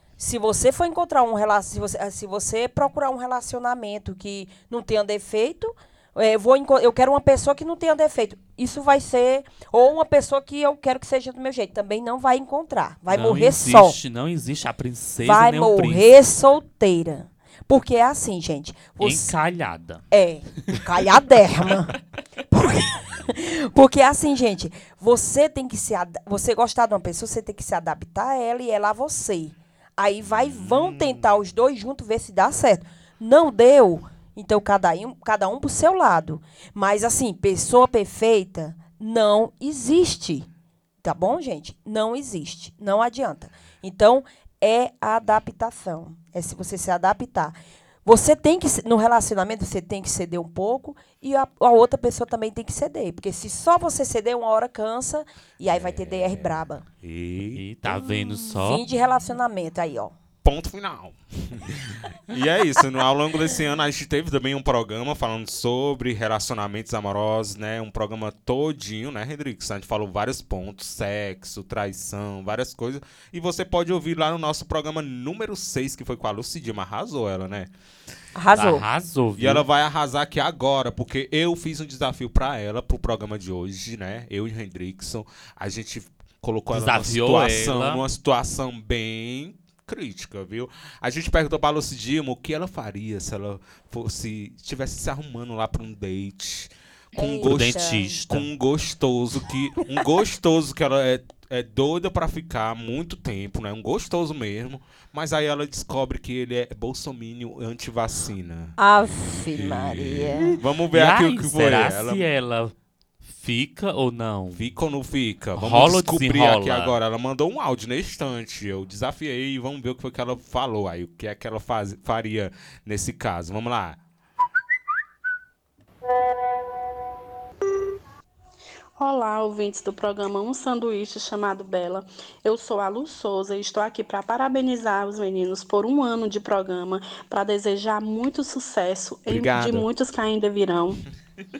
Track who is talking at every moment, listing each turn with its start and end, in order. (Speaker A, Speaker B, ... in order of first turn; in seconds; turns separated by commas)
Speaker A: 0.2-14.0, Speaker B: 13.1-16.1, Speaker A: 15.2-19.4, Speaker B: 19.0-20.0, Speaker A: 20.1-21.9, Speaker A: 22.5-40.5, Speaker C: 30.3-31.3, Speaker A: 41.0-56.8, Speaker C: 55.6-57.6, Speaker B: 57.5-58.8, Speaker A: 58.4-60.1, Speaker C: 60.4-77.7, Speaker A: 78.4-78.8, Speaker B: 78.5-79.6, Speaker C: 79.4-108.7, Speaker B: 86.7-88.0, Speaker A: 97.1-98.2, Speaker B: 97.4-98.5, Speaker A: 108.8-110.6, Speaker C: 109.5-112.2, Speaker B: 110.9-112.7, Speaker B: 113.3-114.7, Speaker C: 114.5-124.0, Speaker B: 115.5-116.9, Speaker D: 129.0-141.0, Speaker C: 139.3-139.8